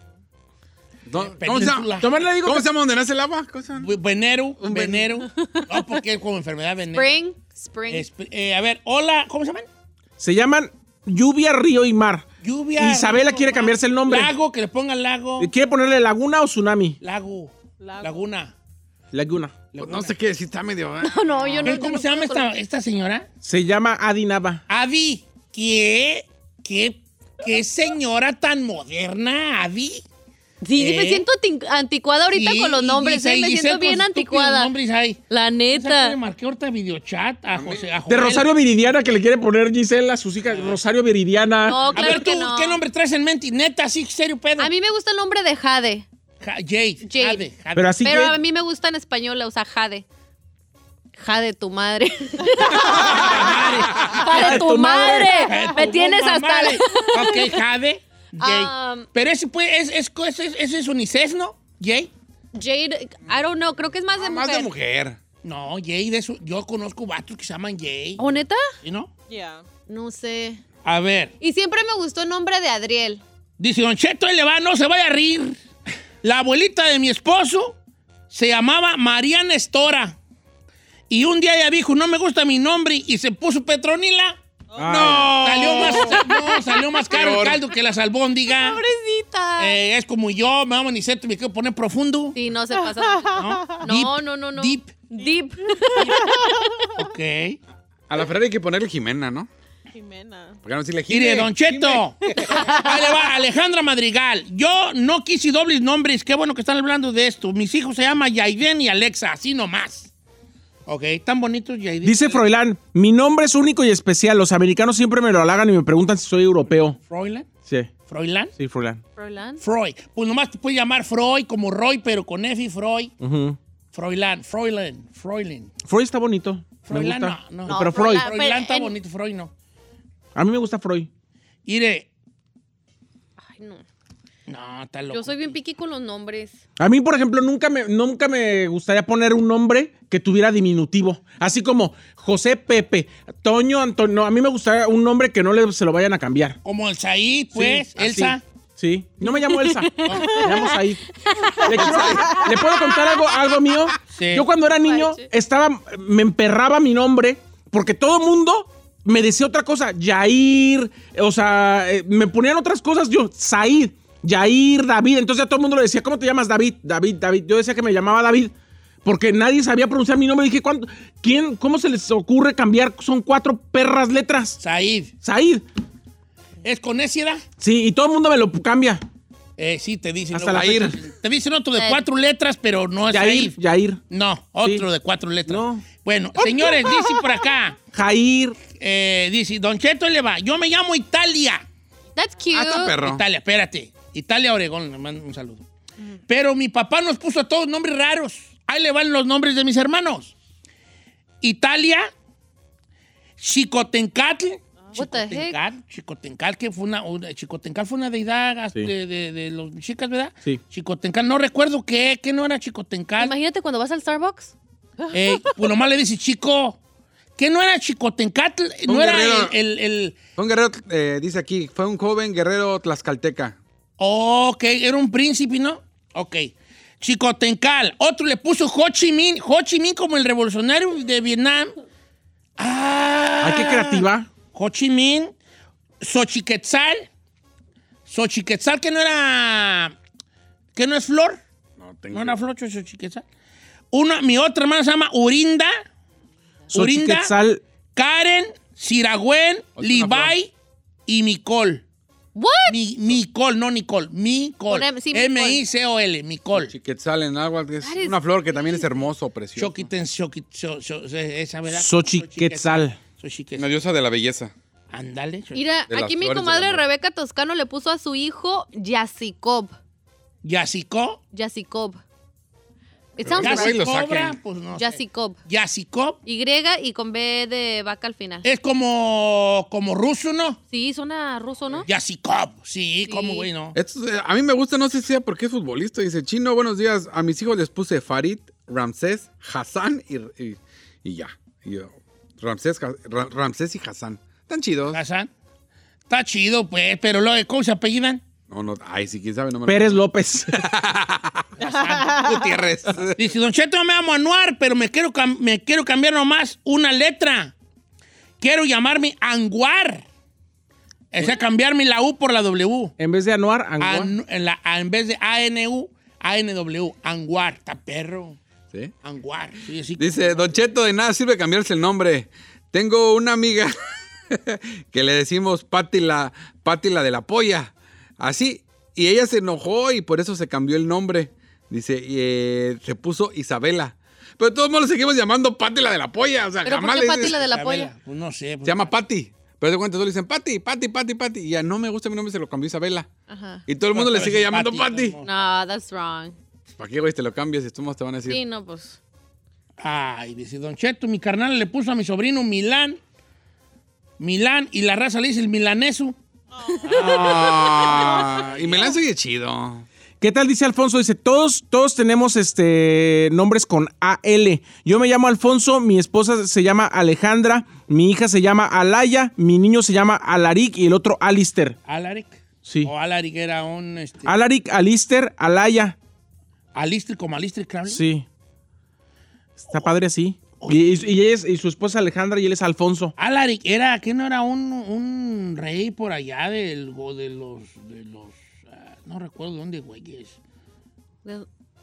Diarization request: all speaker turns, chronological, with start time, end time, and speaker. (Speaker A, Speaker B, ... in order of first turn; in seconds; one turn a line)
Speaker A: 1.1-3.9
Speaker B: 1.1-2.1
Speaker C: 1.6-2.7
Speaker B: 3.8-7.2
Speaker A: 4.6-5.2
Speaker D: 6.9-8.0
Speaker B: 7.9-9.7
Speaker C: 10.2-14.3
Speaker B: 12.4-15.5
Speaker C: 15.4-17.0
Speaker B: 17.0-18.5
Speaker E: 17.8-18.2
Speaker C: 19.1-20.1
Speaker A: 19.8-21.8
Speaker D: 21.0-22.5
Speaker B: 21.6-23.3
Speaker C: 23.4-24.6
Speaker B: 24.7-30.0
Speaker D: 30.6-34.7
Speaker B: 30.8-31.2
Speaker B: 32.3-35.2
Speaker D: 35.3-36.2
Speaker B: 35.7-38.5
Speaker A: 37.5-37.9
Speaker C: 38.1-42.1
Speaker B: 40.5-40.8
Speaker D: 41.6-42.8
Speaker B: 41.9-44.7
Speaker D: 44.6-46.0
Speaker B: 46.4-48.0
Speaker D: 47.0-47.4
Speaker C: 47.8-48.4
Speaker D: 48.0-50.0
Speaker D: 51.1-57.6
Speaker B: 52.7-54.6
Speaker A: 52.8-53.3
Speaker A: 53.9-54.2
Speaker C: 54.1-55.3
Speaker B: 55.3-62.1
Speaker D: 58.4-59.1
Speaker D: 62.5-64.7
Speaker A: 64.1-65.2
Speaker B: 65.4-69.1
Speaker D: 68.2-68.6
Speaker E: 69.3-69.6
Speaker D: 69.9-70.6
Speaker B: 70.8-71.3
Speaker D: 71.4-73.2
Speaker B: 73.6-75.6
Speaker B: 76.2-77.8
Speaker B: 78.3-80.2
Speaker B: 81.1-84.4
Speaker E: 84.7-85.2
Speaker C: 84.8-85.5
Speaker A: 84.8-86.3
Speaker B: 85.0-88.8
Speaker D: 85.7-86.2
Speaker A: 87.1-87.6
Speaker D: 88.5-89.8
Speaker B: 89.6-92.3
Speaker D: 92.3-96.9
Speaker E: 92.8-93.8
Speaker B: 93.3-94.9
Speaker E: 95.2-96.9
Speaker B: 96.0-96.4
Speaker B: 97.0-97.6
Speaker A: 98.1-99.5
Speaker E: 99.9-100.6
Speaker A: 100.6-102.5
Speaker B: 101.1-110.1
Speaker E: 102.2-103.0
Speaker B: 110.8-112.5
Speaker C: 112.0-117.0
Speaker B: 117.0-117.5
Speaker C: 117.7-117.9
Speaker B: 118.1-118.5
Speaker C: 118.5-119.0
Speaker D: 119.2-119.6
Speaker B: 119.6-123.1
Speaker C: 123.2-123.6
Speaker B: 123.9-125.7
Speaker C: 125.8-128.2
Speaker B: 126.8-129.5
Speaker D: 127.7-128.9
Speaker C: 130.3-131.1
Speaker B: 131.7-132.1
Speaker D: 133.4-133.8
Speaker B: 134.5-135.5
Speaker D: 135.1-136.6
Speaker C: 136.8-146.6
Speaker B: 146.6-148.4
Speaker C: 147.5-151.1
Speaker D: 149.2-150.8
Speaker B: 150.0-150.4
Speaker E: 150.3-150.7
Speaker D: 151.3-151.8
Speaker E: 151.6-152.5
Speaker C: 151.7-168.5
Speaker A: 151.7-152.4
Speaker B: 154.1-154.5
Speaker D: 154.8-155.2
Speaker C: 169.0-174.6
Speaker B: 174.6-175.1
Speaker C: 175.2-175.6
Speaker B: 176.6-177.4
Speaker C: 177.6-179.0
Speaker B: 179.6-183.6
Speaker C: 180.3-180.8
Speaker A: 180.5-181.0
Speaker D: 181.8-182.0
Speaker C: 183.1-184.0
Speaker B: 184.1-187.8
Speaker C: 185.5-185.8
Speaker C: 187.9-188.6
Speaker B: 188.7-191.6
Speaker D: 192.2-193.0
Speaker A: 192.5-193.2
Speaker B: 193.0-195.6
Speaker B: 196.3-200.3
Speaker B: 201.4-202.1
Speaker B: 203.4-213.3
Speaker D: 204.9-205.6
Speaker D: 213.2-214.5
Speaker B: 215.1-216.8
Speaker B: 217.4-220.2
Speaker A: 218.8-219.6
Speaker A: 220.3-223.6
Speaker B: 224.0-231.7
Speaker B: 232.6-235.3
Speaker C: 233.4-234.3
Speaker B: 236.0-237.1
Speaker B: 238.1-239.9
Speaker B: 240.7-241.4
Speaker A: 241.8-242.4
Speaker B: 242.1-243.2
Speaker B: 243.9-245.8
Speaker B: 246.7-247.3
Speaker C: 246.7-247.6
Speaker B: 247.9-250.5
Speaker A: 249.8-250.3
Speaker B: 251.1-251.8
Speaker D: 252.3-252.8
Speaker B: 252.7-256.7
Speaker D: 254.7-255.6
Speaker A: 256.6-259.8
Speaker D: 257.8-258.9
Speaker B: 259.6-263.7
Speaker C: 261.7-263.0
Speaker A: 263.6-264.5
Speaker B: 264.9-265.6
Speaker D: 265.5-269.7
Speaker A: 265.9-266.8
Speaker B: 270.4-271.2
Speaker D: 271.3-272.0
Speaker D: 273.2-273.8
Speaker A: 273.2-274.4
Speaker B: 273.4-276.2
Speaker D: 274.8-275.4
Speaker D: 276.2-278.4
Speaker B: 278.4-280.6
Speaker D: 280.7-281.9
Speaker B: 281.8-283.8
Speaker D: 283.1-283.5
Speaker A: 283.7-295.0
Speaker B: 294.9-295.3
Speaker B: 296.1-298.2
Speaker A: 298.5-303.3
Speaker C: 299.6-300.5
Speaker B: 301.6-307.5
Speaker E: 301.6-302.2
Speaker B: 308.4-310.0
Speaker B: 311.1-312.9
Speaker C: 313.0-314.1
Speaker B: 313.8-318.4
Speaker B: 319.0-320.6
Speaker A: 320.0-323.7
Speaker A: 324.3-337.4
Speaker D: 336.6-337.9
Speaker B: 337.2-338.9
Speaker A: 338.6-343.1
Speaker D: 343.3-343.6
Speaker A: 343.7-345.1
Speaker B: 343.9-345.3
Speaker D: 345.2-346.3
Speaker A: 346.8-348.4
Speaker D: 348.3-349.0
Speaker B: 349.8-353.0
Speaker B: 354.2-356.1
Speaker E: 356.5-358.9
Speaker A: 356.8-359.9
Speaker B: 356.9-357.9
Speaker C: 360.2-371.8
Speaker B: 371.9-374.3
Speaker C: 372.6-372.9
Speaker C: 374.2-375.9
Speaker B: 376.7-378.0
Speaker C: 377.9-378.2
Speaker C: 379.6-383.1
Speaker B: 379.7-380.0
Speaker B: 380.6-381.1
Speaker B: 383.2-390.4